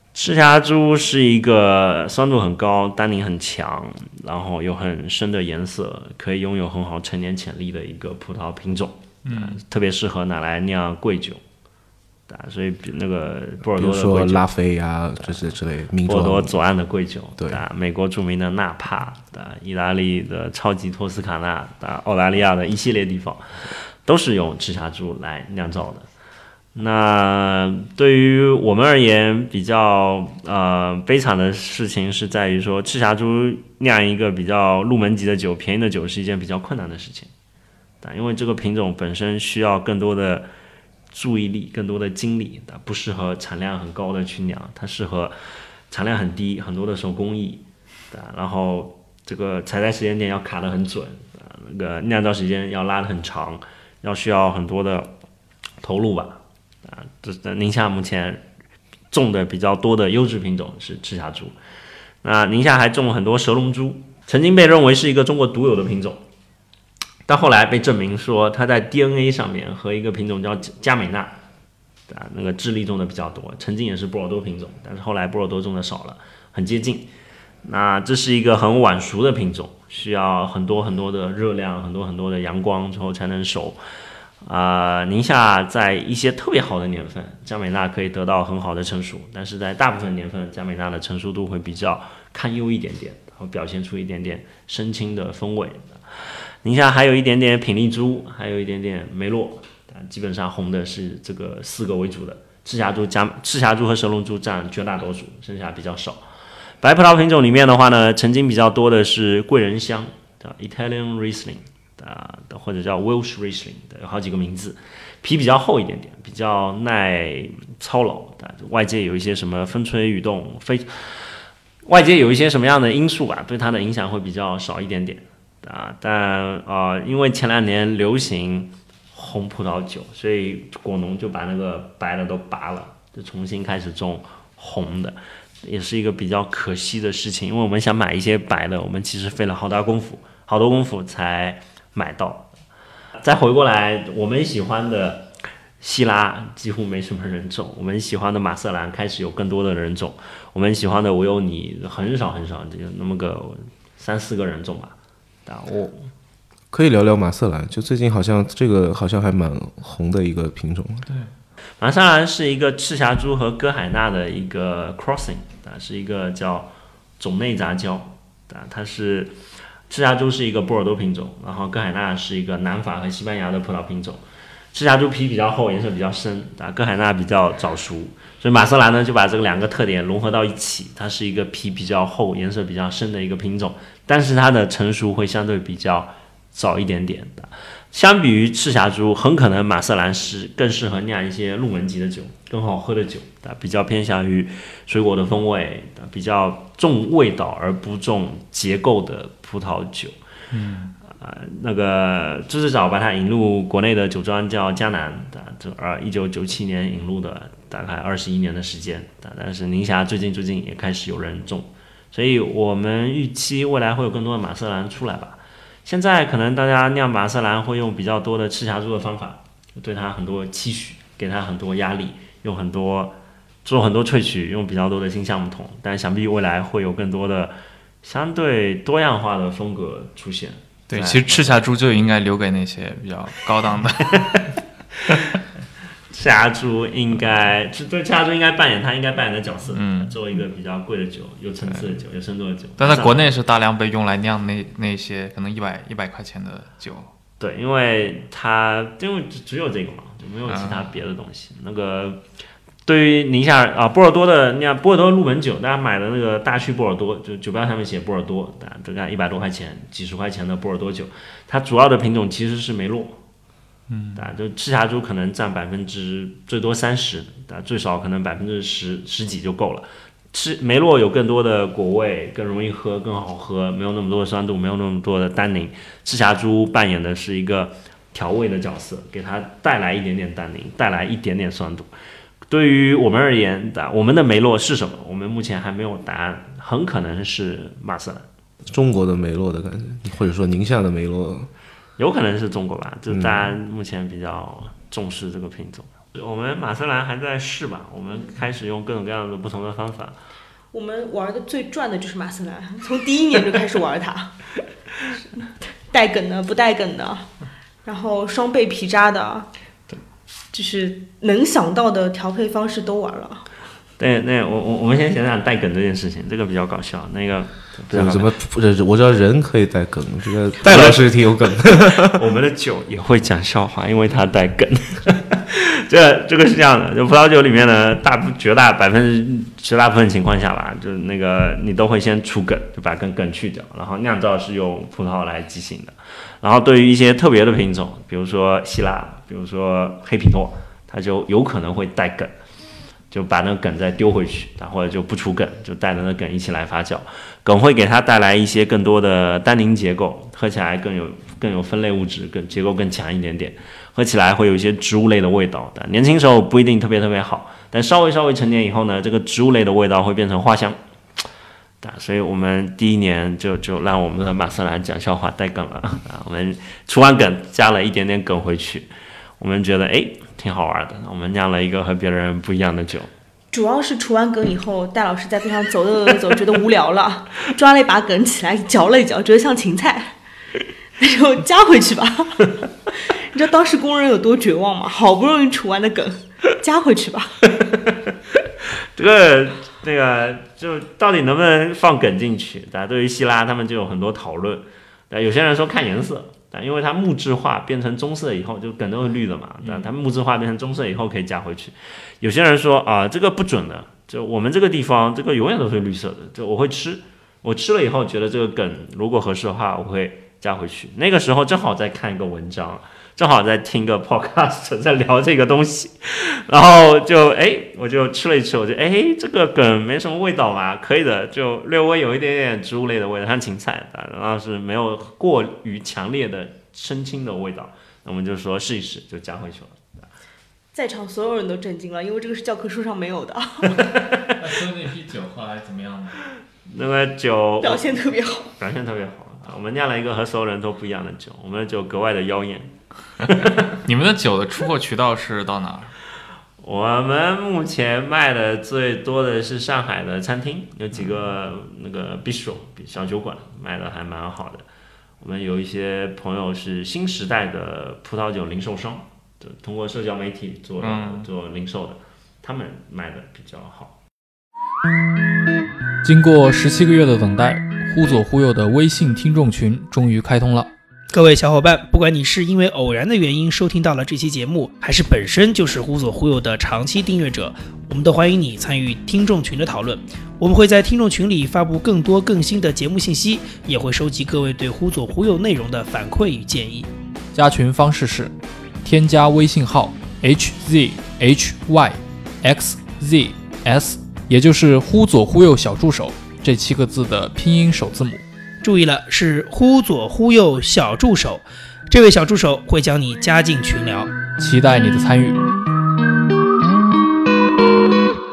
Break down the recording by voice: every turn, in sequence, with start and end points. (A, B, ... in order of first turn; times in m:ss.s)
0:00.2-0:11.4 A
0:09.2-0:09.6 B
0:12.3-0:14.4 A
0:13.8-0:16.6 C
0:16.0-0:26.1 A
0:26.8-0:37.3 A
0:38.0-0:40.5 A
0:41.1-0:45.3 A
0:45.9-0:55.1 A
0:55.8-0:58.4 A
0:59.1-1:01.5 A
1:02.2-1:06.2 A
1:07.3-1:11.4 A
1:12.1-1:17.1 A
1:17.6-1:23.8 A
1:24.4-1:36.0 A
1:36.6-1:46.2 A
1:46.8-2:01.3 A
2:01.8-2:22.5 A
2:23.2-2:25.3 A
2:25.8-2:35.0 A
2:35.5-2:36.1 A
2:36.7-2:41.1 C
2:41.8-2:49.3 A
2:49.9-2:54.2 A
2:54.7-3:20.1 A
3:20.5-3:21.0 B
3:21.2-3:51.6 A
3:50.9-3:54.4 B
3:56.1-4:03.2 A
3:59.7-4:00.2 B
4:01.7-4:02.0 B
4:02.8-4:07.1 B
4:07.4-4:12.2 A
4:10.5-4:10.9 B
4:12.9-4:23.2 A
4:23.9-4:24.2 B
4:24.2-4:41.9 A
4:42.5-4:48.3 A
4:48.6-4:51.5 C
4:52.0-5:00.2 A
4:53.1-4:53.5 C
5:00.7-5:07.3 D
5:07.8-5:09.5 D
5:10.5-5:13.5 D
5:14.0-5:18.3 A
5:17.9-5:22.2 C
5:20.6-5:42.3 A
5:43.1-6:01.2 A
6:01.8-6:08.9 A
6:09.4-6:13.1 A
6:13.5-6:20.2 D
6:21.0-6:27.5 D
6:29.0-7:10.1 A
6:39.6-6:39.9 B
7:10.7-7:13.9 D
7:14.4-7:16.2 B
7:16.6-7:17.9 A
7:17.6-7:18.5 D
7:18.6-7:23.7 A
7:23.7-7:25.9 B
7:26.6-7:34.6 A
7:35.2-7:44.0 A
7:40.8-7:41.3 B
7:46.0-7:50.7 E
7:51.1-8:06.9 F
8:07.3-8:18.2 E
8:18.6-8:24.1 F
8:24.4-8:25.4 E